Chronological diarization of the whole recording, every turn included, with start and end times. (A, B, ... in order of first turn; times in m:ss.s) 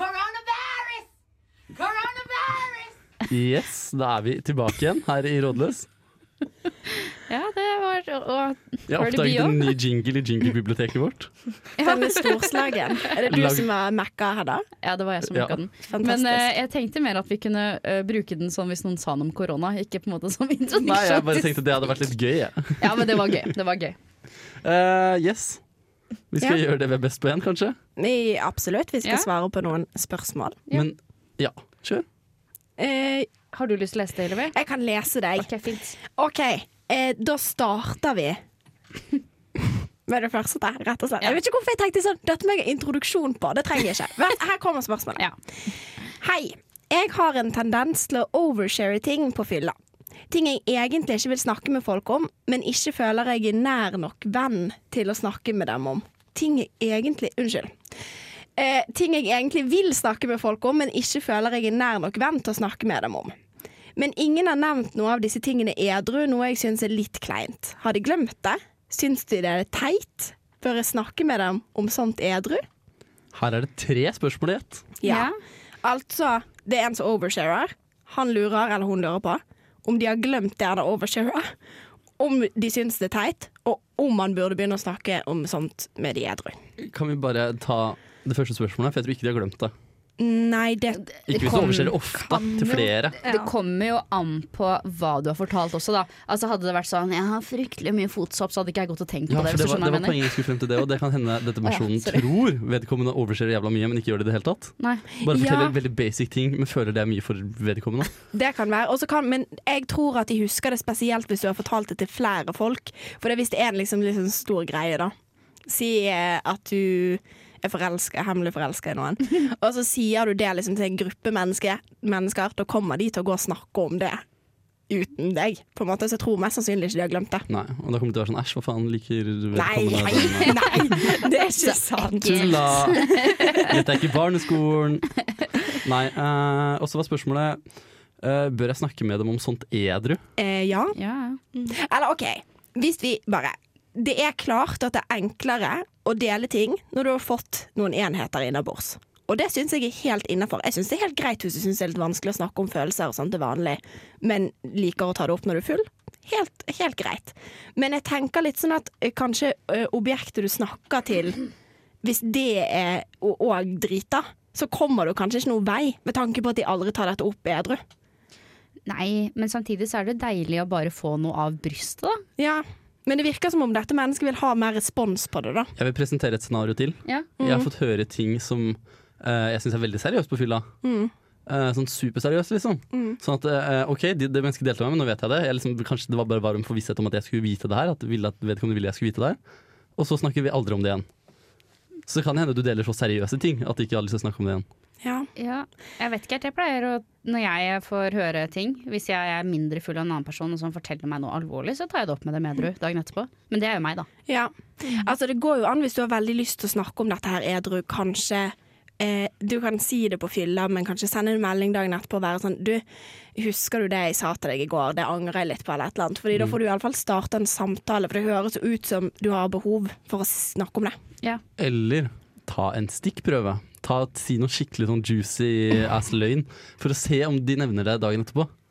0:03.3-0:05.9 A
0:06.9-0:09.6 B
0:08.9-0:11.3 A
0:11.8-0:12.3 B
0:11.8-0:14.6 C
0:13.3-0:13.7 A
0:14.8-0:21.5 B
0:15.8-0:16.5 C
0:20.8-0:23.2 A
0:22.8-0:24.0 B
0:24.6-0:25.6 A
0:26.3-0:27.8 A
0:28.0-0:30.6 C
0:29.0-0:29.3 B
0:30.7-0:32.0 A
0:32.8-0:33.3 C
0:33.5-0:34.6 B
0:34.5-0:35.5 C
0:35.4-0:36.0 B
0:36.0-0:38.4 C
0:39.6-0:45.2 C
0:46.2-0:49.7 C
0:50.3-0:57.8 C
0:58.6-1:03.3 C
1:04.0-1:12.6 C
1:13.3-1:14.9 A
1:15.0-1:15.3 C
1:15.0-1:15.4 B
1:15.8-1:21.5 C
1:22.2-1:26.6 C
1:26.8-1:29.7 A
1:30.2-1:31.0 C
1:31.1-1:32.5 B
1:31.3-1:33.2 A
1:32.3-1:32.9 C
1:33.2-1:40.2 B
1:39.3-1:48.1 A
1:41.6-1:42.2 B
1:45.2-1:45.8 C
1:48.3-1:55.1 C
1:55.6-2:04.2 C
2:04.9-2:07.5 C
2:07.5-2:10.8 A
2:09.5-2:13.0 C
2:10.2-2:13.7 B
2:12.2-2:15.1 A
2:15.8-2:17.6 A
2:18.2-2:20.2 A
2:20.4-2:21.0 C
2:21.0-2:21.4 B
2:21.7-2:41.4 C
2:42.0-2:47.8 C
2:48.8-2:52.2 B
2:52.4-2:55.7 C
2:55.8-3:00.7 A
2:57.4-2:57.7 C
3:00.8-3:01.1 C
3:01.5-3:09.4 A
3:02.9-3:03.2 C
3:10.0-3:11.0 A
3:12.1-3:14.6 A
3:15.0-3:15.3 C
3:15.4-3:24.1 B
3:24.3-3:32.8 C
3:33.3-3:41.0 C
3:41.6-3:48.5 A